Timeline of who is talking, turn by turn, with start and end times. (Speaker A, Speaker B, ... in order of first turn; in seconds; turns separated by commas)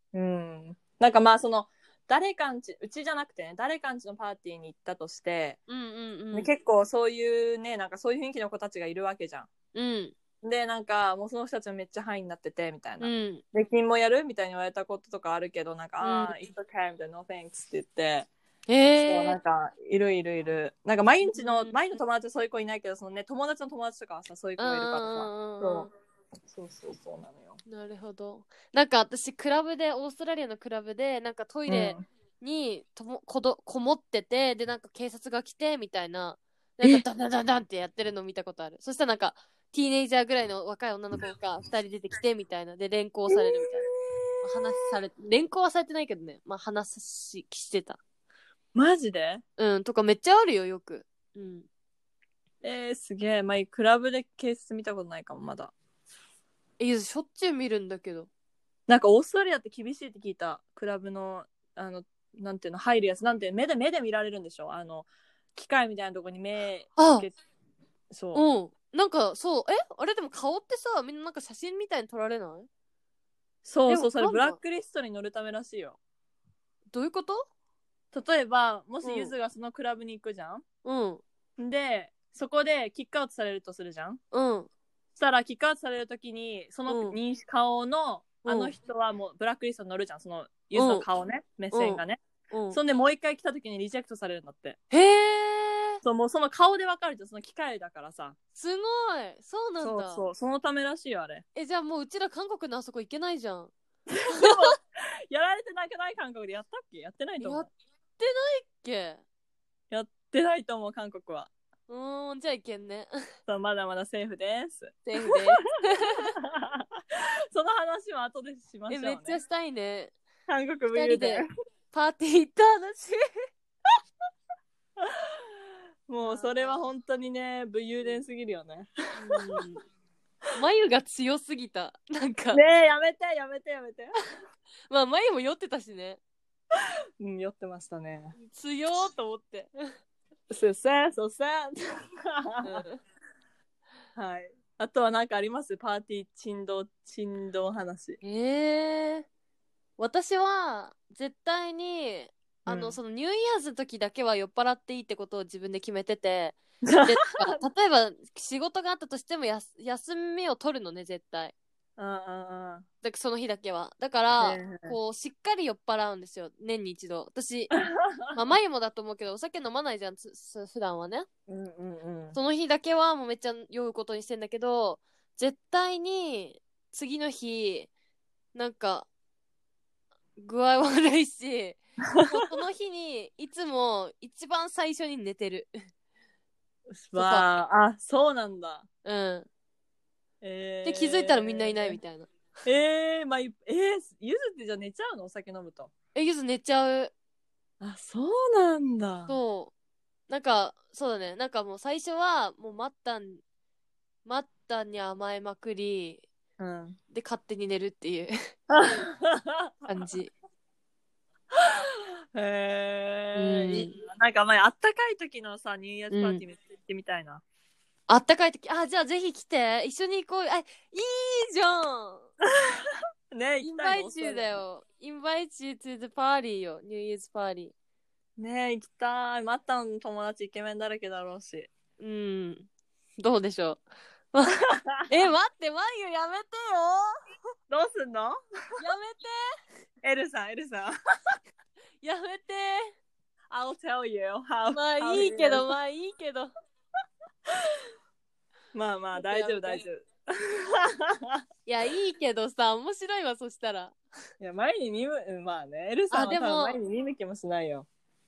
Speaker A: 0.1-5.6, Speaker B: 5.7-6.5, Speaker A: 6.3-9.5, Speaker B: 9.7-10.1, Speaker A: 10.4-18.3, Speaker B: 13.0-13.4, Speaker B: 16.0-16.3, Speaker B: 18.7-19.4, Speaker A: 19.0-25.9, Speaker B: 21.3-21.8, Speaker B: 24.6-25.9, Speaker A: 26.5-27.6, Speaker B: 27.6-43.9, Speaker A: 31.7-32.0, Speaker A: 43.3-44.9, Speaker B: 44.4-48.0, Speaker A: 48.7-49.4, Speaker B: 49.6-51.6, Speaker A: 52.6-55.7, Speaker B: 56.8-58.3, Speaker A: 58.9-67.3, Speaker B: 67.0-67.3, Speaker A: 68.1-68.4, Speaker B: 68.3-72.7, Speaker A: 73.6-76.0, Speaker B: 73.9-74.6, Speaker B: 76.9-77.5, Speaker A: 78.1-80.6, Speaker B: 79.0-79.3, Speaker B: 80.8-81.2, Speaker A: 81.6-84.2, Speaker B: 84.3-84.7, Speaker A: 85.2-94.8, Speaker B: 86.9-87.2, Speaker B: 88.4-88.7, Speaker B: 90.7-91.0, Speaker B: 91.7-92.8, Speaker B: 94.9-96.0, Speaker A: 96.0-98.3, Speaker B: 98.5-100.2, Speaker A: 99.8-101.4, Speaker B: 101.5-103.7, Speaker A: 104.1-107.7, Speaker B: 104.3-104.7, Speaker B: 107.4-109.2, Speaker A: 109.9-111.5, Speaker B: 111.9-113.1, Speaker A: 113.5-116.8, Speaker B: 115.0-116.3, Speaker A: 117.5-119.4, Speaker B: 118.9-120.1, Speaker A: 120.5-121.5, Speaker B: 120.9-123.2, Speaker A: 126.1-129.6, Speaker B: 126.2-126.9, Speaker B: 129.2-129.8, Speaker B: 130.5-132.6, Speaker A: 132.5-134.1, Speaker B: 134.9-136.2, Speaker A: 137.2-138.3, Speaker B: 138.4-139.7, Speaker A: 140.5-142.8, Speaker B: 142.6-143.0, Speaker A: 144.2-148.2, Speaker B: 148.2-149.2, Speaker B: 150.0-161.5, Speaker A: 152.7-153.0, Speaker A: 156.8-157.6, Speaker A: 162.0-162.8, Speaker B: 163.0-167.7, Speaker A: 164.4-165.0, Speaker A: 167.7-168.3, Speaker B: 168.3-171.3, Speaker A: 171.5-172.4, Speaker B: 172.3-177.9, Speaker B: 178.5-179.1, Speaker B: 180.4-185.7, Speaker A: 186.9-188.9, Speaker B: 187.1-187.5, Speaker B: 189.0-189.5, Speaker A: 190.4-192.0, Speaker B: 190.8-192.3, Speaker A: 192.6-195.9, Speaker B: 196.1-197.1, Speaker A: 197.8-199.4, Speaker B: 199.3-199.7, Speaker B: 200.3-203.4, Speaker B: 204.2-206.2, Speaker A: 206.6-207.0, Speaker B: 207.1-208.3, Speaker A: 208.7-210.0, Speaker B: 209.9-210.3, Speaker A: 212.3-217.4, Speaker B: 213.3-214.0, Speaker B: 216.1-216.4, Speaker B: 218.1-222.3, Speaker A: 222.5-224.6, Speaker B: 223.6-227.7, Speaker A: 228.4-231.7, Speaker B: 232.0-237.2, Speaker A: 234.7-235.1, Speaker A: 237.7-238.4, Speaker B: 238.8-239.4, Speaker A: 240.0-240.9, Speaker B: 242.0-242.9, Speaker A: 243.5-245.7, Speaker B: 244.7-246.5, Speaker A: 248.7-251.4, Speaker B: 249.1-249.8, Speaker B: 251.7-253.9, Speaker A: 254.4-257.9, Speaker B: 256.1-256.8